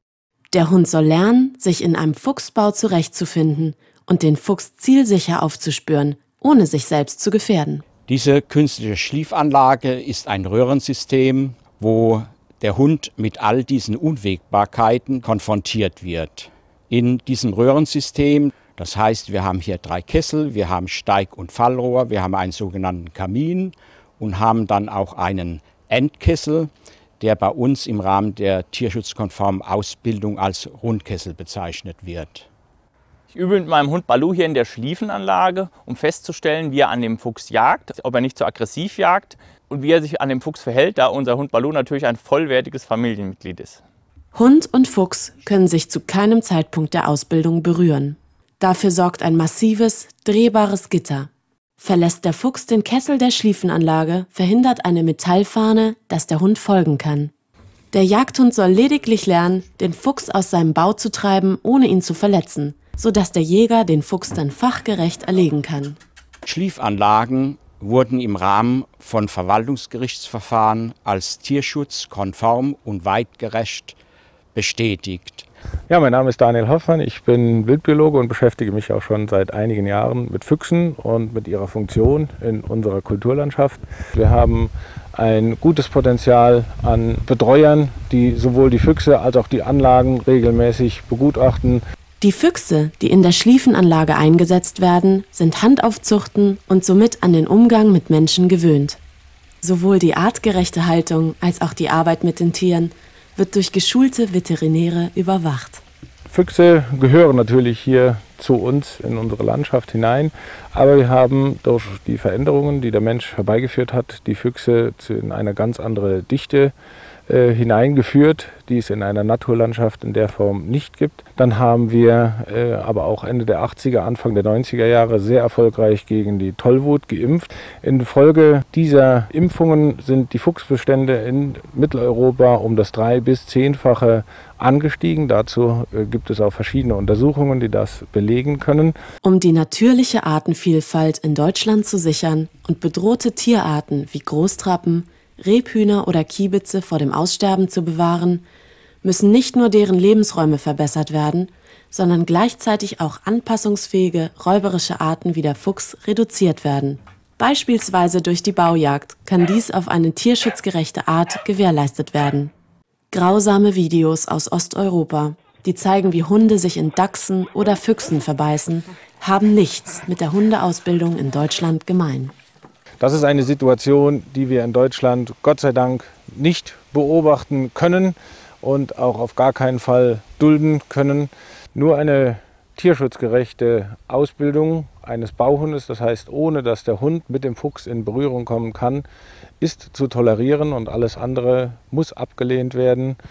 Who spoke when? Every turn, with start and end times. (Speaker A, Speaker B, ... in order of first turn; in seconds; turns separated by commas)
Speaker A: 0.5-7.8, Speaker B: 8.1-32.5, Speaker C: 33.3-43.8, Speaker A: 44.3-57.3, Speaker A: 57.9-66.0, Speaker B: 66.4-74.0, Speaker B: 74.5-75.5, Speaker D: 75.9-91.8, Speaker A: 92.2-99.0, Speaker A: 99.6-105.8, Speaker D: 106.3-116.7, Speaker D: 117.3-138.9, Speaker A: 139.2-148.4, Speaker A: 149.0-162.5, Speaker A: 163.1-172.3, Speaker D: 173.0-189.0, Speaker D: 189.6-193.2